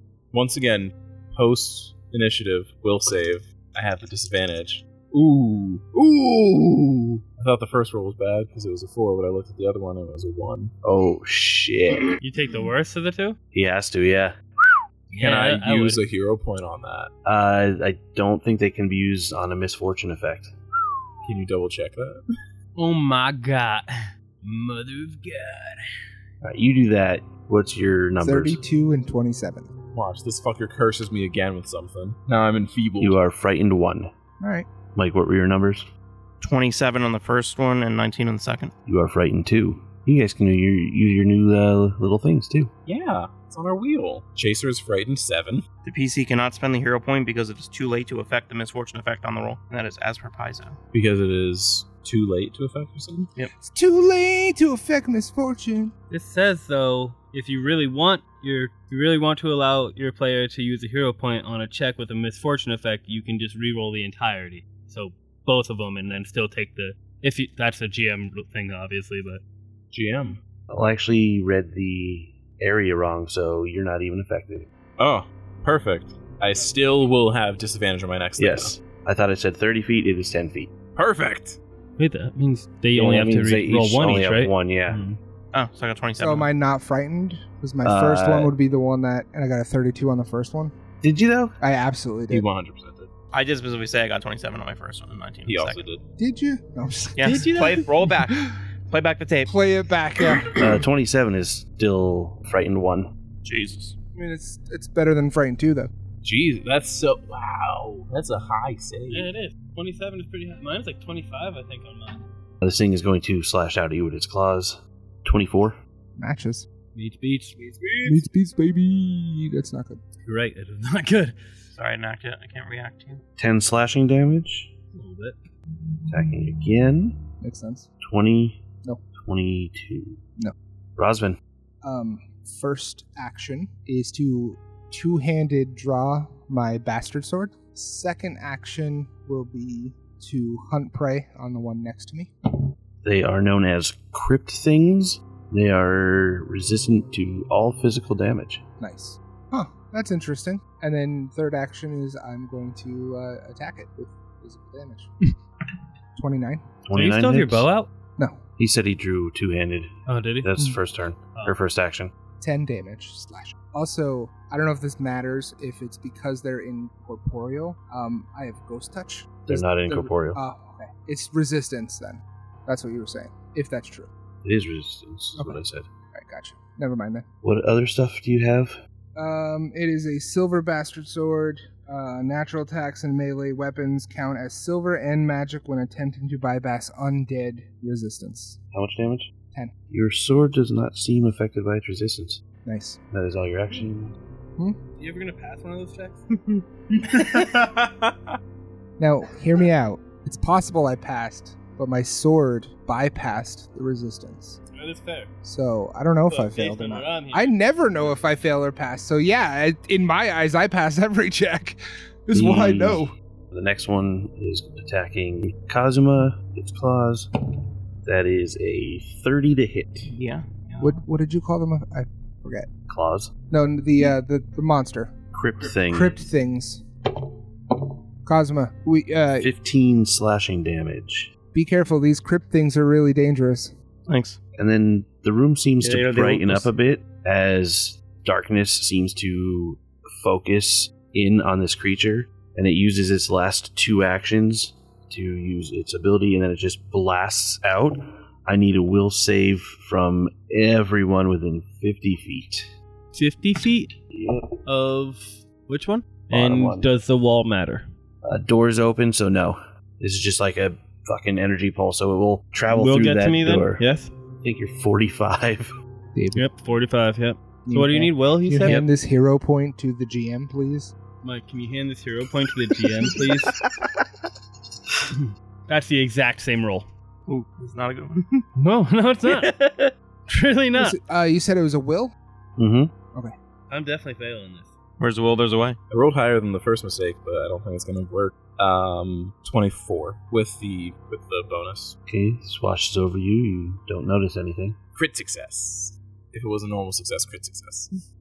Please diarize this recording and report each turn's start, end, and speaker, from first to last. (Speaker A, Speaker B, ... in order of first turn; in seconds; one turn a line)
Speaker A: 0.3-10.7
Speaker B: 10.8-12.2
Speaker C: 12.2-13.4
Speaker B: 13.5-14.3
Speaker A: 15.1-17.1
Speaker C: 15.1-16.0
Speaker B: 17.2-20.5
Speaker A: 21.2-22.2
Speaker C: 22.8-23.9
Speaker C: 24.4-25.8
Speaker B: 26.4-28.6
Speaker D: 28.2-29.7
Speaker A: 29.9-33.2
Speaker B: 33.0-34.1
Speaker D: 34.4-34.7
Speaker B: 34.9-35.9
Speaker E: 36.4-38.7
Speaker B: 38.9-42.7
Speaker A: 42.9-45.6
Speaker E: 45.8-50.8
Speaker A: 50.9-53.3
Speaker D: 53.6-55.9
Speaker C: 56.1-69.4
Speaker A: 69.9-70.4
Speaker B: 70.7-74.7
Speaker A: 75.0-78.7
Speaker B: 78.4-80.7
Speaker A: 81.0-81.6
Speaker C: 82.0-85.2
Speaker B: 82.9-85.0
Speaker E: 85.5-86.5
Speaker D: 86.2-90.7
Speaker B: 87.8-88.5
Speaker B: 91.0-91.5
Speaker D: 91.6-92.5
Speaker A: 92.3-93.1
Speaker E: 93.3-95.8
Speaker A: 95.5-96.0
Speaker D: 96.2-97.5
Speaker E: 97.2-99.5
Speaker C: 97.2-97.8
Speaker D: 99.5-100.5
Speaker B: 100.6-103.1
Speaker E: 103.4-103.9
Speaker D: 104.1-105.9
Speaker A: 106.2-109.3
Speaker C: 109.1-112.2
Speaker B: 112.6-115.8
Speaker D: 116.2-116.7
Speaker C: 116.9-117.6
Speaker A: 117.6-118.2
Speaker D: 118.0-120.0
Speaker C: 120.2-121.6
Speaker E: 121.7-123.2
Speaker B: 123.4-124.7
Speaker C: 124.9-125.4
Speaker B: 126.1-127.2
Speaker D: 127.4-127.9
Speaker B: 128.0-128.6
Speaker B: 129.2-130.2
Speaker B: 131.0-131.4
Speaker D: 131.8-142.3
Speaker B: 143.0-148.6
Speaker D: 148.8-155.1
Speaker D: 156.2-156.6
Speaker B: 156.9-157.7
Speaker C: 156.9-157.9
Speaker B: 158.6-162.1
Speaker C: 160.1-160.5
Speaker D: 162.4-174.1
Speaker B: 169.5-170.4
Speaker B: 174.4-175.9
Speaker D: 175.3-175.6
Speaker D: 176.1-177.2
Speaker B: 177.4-178.8
Speaker D: 179.2-188.6
Speaker B: 188.7-189.3
Speaker B: 189.9-192.4
Speaker D: 192.6-193.0
Speaker B: 193.1-194.1
Speaker C: 195.0-196.3
Speaker A: 197.1-198.2
Speaker D: 199.0-204.6
Speaker C: 204.7-205.3
Speaker D: 205.4-213.1
Speaker C: 206.3-207.5
Speaker B: 212.3-217.3
Speaker B: 218.0-220.1
Speaker E: 220.1-221.0
Speaker D: 220.8-222.7
Speaker B: 222.9-223.3
Speaker D: 223.5-226.8
Speaker B: 225.3-226.2
Speaker D: 228.2-229.5
Speaker B: 229.4-231.3
Speaker D: 231.5-233.7
Speaker E: 234.1-234.4
Speaker B: 234.6-252.7
Speaker E: 235.8-236.7
Speaker C: 253.1-253.9
Speaker B: 254.1-254.5
Speaker C: 254.7-257.9
Speaker B: 256.3-256.9
Speaker B: 258.2-263.8
Speaker C: 262.7-264.1
Speaker B: 264.4-265.7
Speaker D: 266.1-266.5
Speaker C: 266.3-268.8
Speaker D: 267.6-270.9
Speaker C: 271.2-273.5
Speaker C: 275.1-276.9
Speaker E: 277.3-278.4
Speaker C: 278.6-281.0
Speaker D: 280.7-282.1
Speaker B: 282.6-282.9
Speaker C: 283.7-284.7
Speaker E: 285.0-285.8
Speaker A: 285.9-291.9
Speaker B: 292.1-294.8
Speaker A: 294.9-298.0